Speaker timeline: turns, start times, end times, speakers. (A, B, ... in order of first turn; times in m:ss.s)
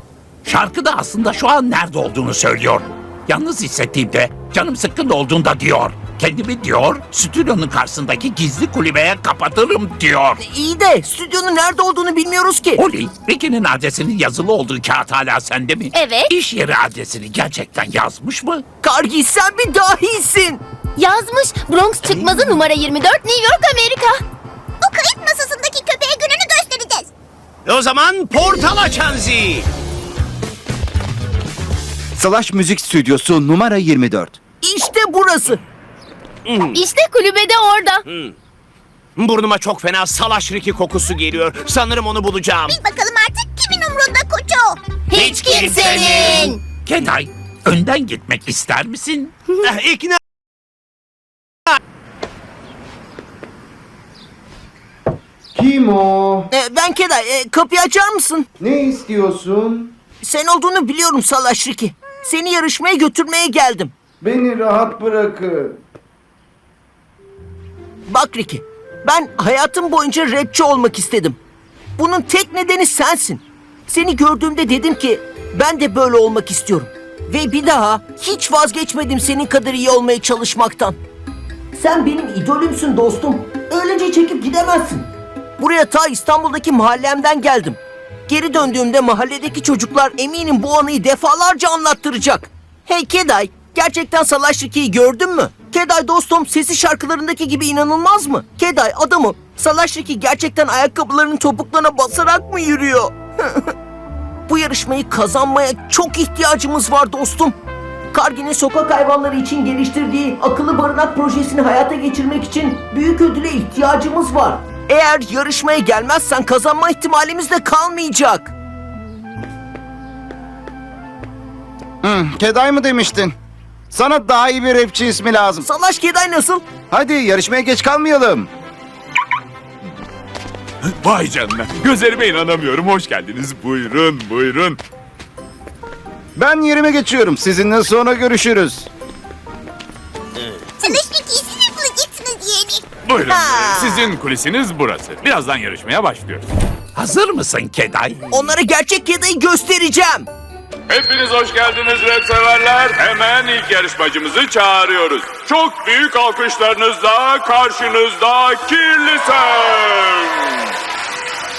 0:00.4-0:10.4 A
0:10.4-0:12.8 B
0:12.8-0:18.6 A
0:15.9-0:16.3 C
0:18.8-0:20.6 B
0:21.0-0:24.2 C
0:24.8-0:27.1 D
0:27.6-0:29.7 E
0:32.2-0:34.4 F
0:34.6-0:35.6 B
0:36.4-0:36.8 E
0:36.7-0:38.0 C
0:38.1-0:38.3 E
0:39.2-0:42.8 E
0:42.7-0:44.8 D
0:45.1-0:46.6 C
0:45.1-0:46.5 E
0:46.6-0:49.3 A
0:49.6-0:50.2 E
0:55.5-0:56.5 F
0:56.5-0:58.5 B
0:58.6-0:59.9 F
1:00.2-1:03.9 B
1:04.2-1:05.8 F
1:08.1-1:11.4 B
1:12.0-1:21.0 B
1:21.7-1:43.7 B
1:44.5-1:47.6 B
1:48.1-1:58.5 B
2:02.0-2:03.3 F
2:03.9-2:05.7 F
2:05.6-2:06.6 B
2:06.9-2:08.5 F
2:11.0-2:14.8 G
2:16.4-2:18.9 F
2:20.8-2:22.8 D
2:23.0-2:26.4 G
2:23.2-2:24.1 B
2:27.0-2:28.2 A
2:28.3-2:30.3 B
2:30.9-2:40.7 G